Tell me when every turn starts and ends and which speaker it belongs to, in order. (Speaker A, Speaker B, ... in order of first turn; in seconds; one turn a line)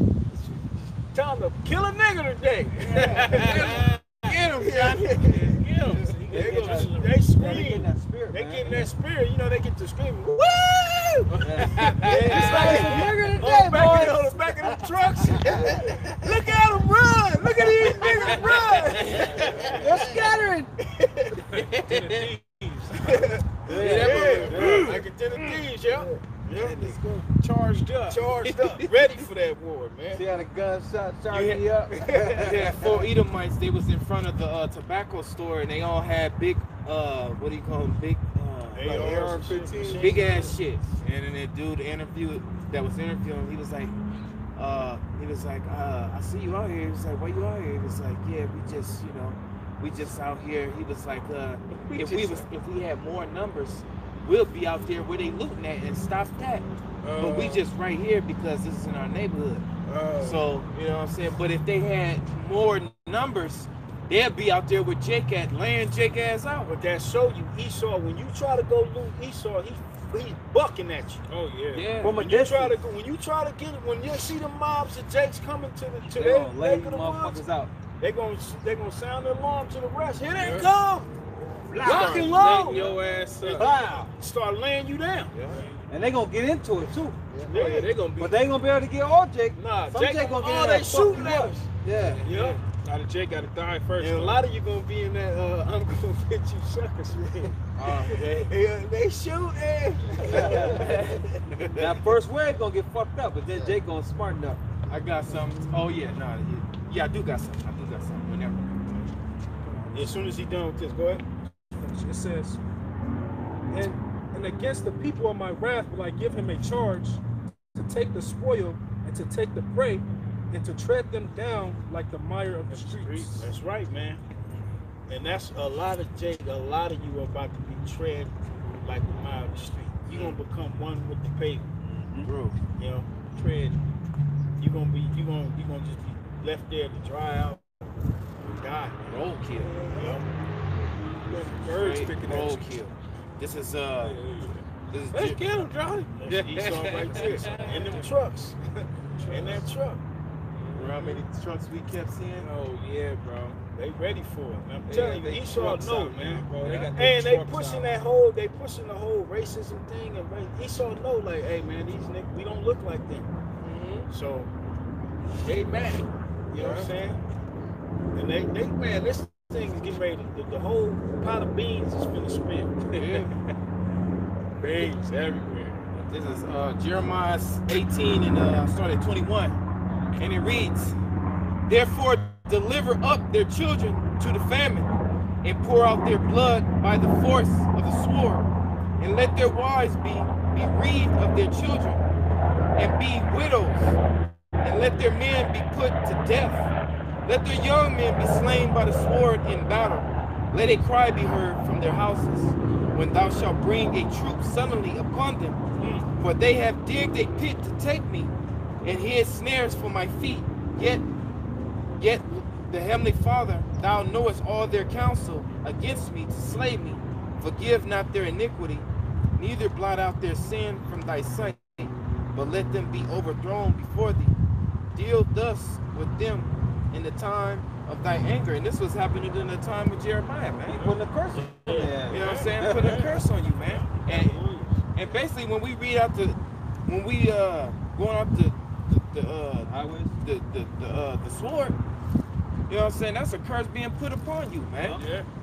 Speaker A: 1.1-3.9
Speaker B: 2.8-7.0
Speaker C: 3.1-3.7
Speaker A: 4.5-11.0
Speaker D: 6.3-8.8
Speaker B: 11.3-12.7
Speaker D: 11.4-15.9
Speaker A: 11.8-20.1
Speaker C: 12.3-13.0
Speaker C: 17.9-19.7
Speaker B: 19.0-20.1
Speaker D: 19.7-20.7
Speaker A: 21.0-21.4
Speaker B: 21.5-25.0
Speaker C: 21.5-22.3
Speaker A: 23.1-26.9
Speaker D: 23.6-24.9
Speaker C: 23.7-24.9
Speaker C: 26.5-28.2
Speaker B: 27.8-28.7
Speaker A: 28.1-30.3
Speaker D: 30.1-33.1
Speaker C: 31.3-39.1
Speaker A: 38.7-40.5
Speaker D: 38.9-40.0
Speaker B: 39.5-40.0
Speaker C: 40.0-43.9
Speaker C: 44.5-59.6
Speaker B: 51.9-52.4
Speaker B: 57.0-57.6
Speaker B: 59.9-60.5
Speaker C: 60.2-66.7
Speaker A: 66.7-71.2
Speaker B: 71.3-72.0
Speaker C: 71.7-72.1
Speaker D: 72.0-72.8
Speaker A: 72.1-77.4
Speaker D: 76.1-77.7
Speaker A: 78.0-81.1
Speaker B: 80.4-80.7
Speaker B: 81.7-83.7
Speaker C: 81.7-82.4
Speaker A: 81.8-85.3
Speaker D: 83.5-84.1
Speaker B: 85.3-85.7
Speaker D: 85.9-87.3
Speaker A: 87.5-88.0
Speaker B: 87.5-88.5
Speaker D: 88.2-92.2
Speaker A: 89.5-91.6
Speaker B: 91.1-94.4
Speaker A: 92.2-92.6
Speaker A: 94.0-101.2
Speaker C: 97.7-98.5
Speaker C: 100.3-102.0
Speaker D: 100.3-100.9
Speaker D: 101.8-104.6
Speaker C: 104.9-108.7
Speaker A: 109.9-111.2
Speaker E: 111.7-112.6
Speaker E: 113.7-117.2
Speaker E: 117.7-123.5
Speaker A: 122.9-124.2
Speaker A: 125.1-131.7
Speaker C: 130.1-130.4
Speaker D: 132.0-132.3
Speaker C: 132.2-132.6
Speaker A: 132.8-133.1
Speaker B: 133.3-133.8
Speaker A: 134.6-137.6
Speaker A: 138.5-139.0
Speaker C: 139.1-139.9
Speaker B: 139.6-140.2
Speaker A: 139.9-140.2
Speaker B: 141.1-142.7
Speaker C: 141.7-144.2
Speaker B: 144.0-148.1
Speaker C: 144.9-145.4
Speaker A: 146.2-148.6
Speaker B: 149.2-149.6
Speaker A: 149.3-150.0
Speaker B: 150.6-151.2
Speaker C: 150.7-152.5
Speaker B: 152.3-153.6
Speaker A: 153.7-163.3
Speaker B: 154.9-157.9
Speaker B: 163.6-164.1
Speaker A: 164.1-164.5
Speaker A: 165.4-167.2
Speaker B: 166.5-166.9
Speaker A: 168.1-173.0
Speaker B: 172.9-173.3
Speaker C: 172.9-173.3
Speaker B: 174.6-175.9
Speaker C: 176.0-179.6
Speaker C: 180.1-180.9
Speaker C: 181.7-184.9
Speaker C: 185.4-192.0
Speaker C: 192.7-194.0
Speaker C: 194.6-196.7
Speaker C: 197.2-205.6
Speaker B: 205.8-206.1
Speaker C: 206.2-208.3
Speaker C: 208.8-211.0
Speaker C: 212.0-224.3
Speaker C: 224.9-230.9
Speaker D: 230.7-233.1
Speaker A: 231.3-232.3
Speaker C: 232.1-234.4
Speaker B: 232.1-233.2
Speaker A: 233.6-234.9
Speaker C: 234.9-241.8
Speaker D: 239.6-240.1
Speaker C: 242.7-245.0
Speaker B: 244.9-245.2